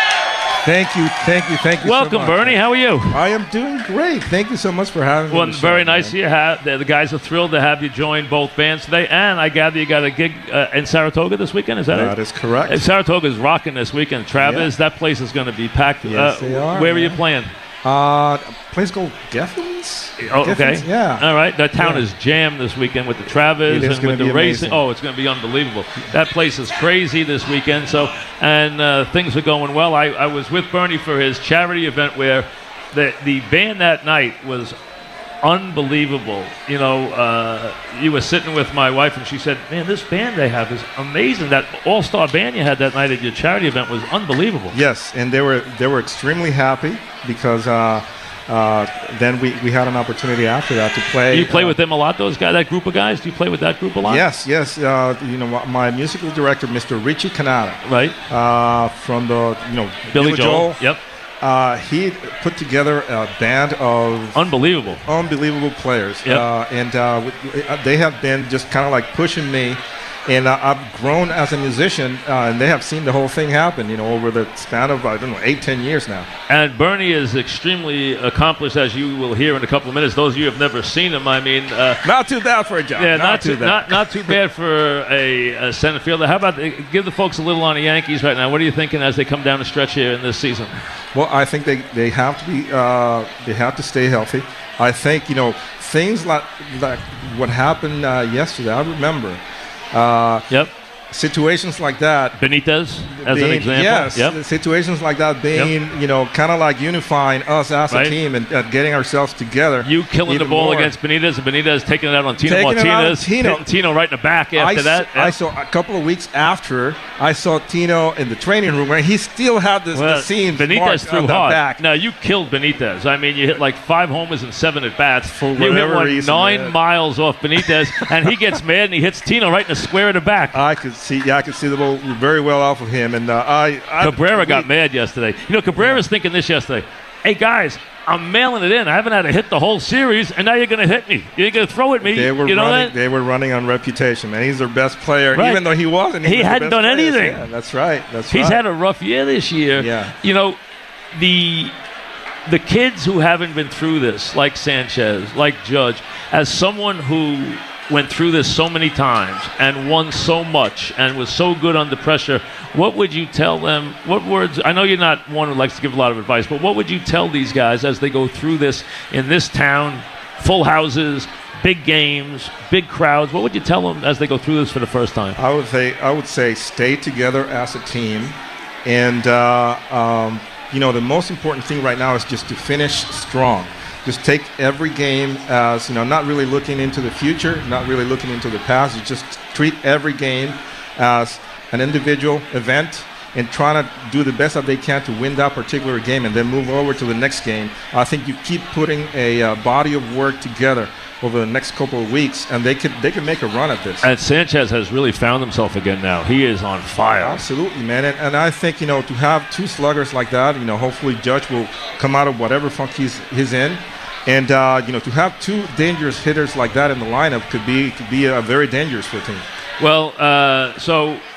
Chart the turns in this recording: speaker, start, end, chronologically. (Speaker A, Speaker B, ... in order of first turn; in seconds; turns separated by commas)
Speaker A: 0.6-6.2, Speaker B: 1.8-3.2, Speaker B: 5.3-12.2, Speaker A: 11.9-12.8, Speaker B: 12.7-17.5, Speaker A: 14.4-14.7, Speaker A: 16.0-17.2, Speaker A: 17.8-21.3, Speaker B: 20.2-34.8, Speaker A: 21.8-22.0, Speaker A: 23.7-24.9, Speaker B: 35.4-44.8, Speaker A: 44.7-51.8, Speaker B: 51.3-54.2, Speaker A: 54.0-60.8, Speaker B: 57.8-58.2, Speaker B: 60.1-61.0, Speaker A: 61.4-64.4, Speaker B: 64.3-65.0, Speaker A: 65.0-76.3, Speaker B: 76.5-82.0, Speaker A: 82.0-84.4, Speaker B: 83.0-90.7, Speaker A: 91.1-99.4, Speaker A: 99.9-100.5, Speaker A: 101.1-102.4, Speaker B: 102.4-104.4, Speaker A: 103.1-110.9, Speaker B: 107.9-108.2, Speaker B: 109.8-115.4, Speaker A: 112.4-113.7, Speaker A: 114.5-121.8, Speaker B: 119.9-130.6, Speaker A: 125.3-126.8, Speaker A: 130.5-134.7, Speaker B: 134.0-142.9, Speaker A: 135.8-136.1, Speaker A: 142.0-148.6, Speaker B: 145.3-145.7, Speaker B: 146.2-147.4, Speaker B: 148.3-150.6, Speaker A: 149.8-150.1, Speaker B: 151.1-151.7, Speaker B: 152.5-175.4, Speaker A: 175.4-178.3, Speaker A: 178.8-204.1, Speaker B: 204.0-207.4, Speaker A: 207.2-219.4, Speaker B: 219.8-221.2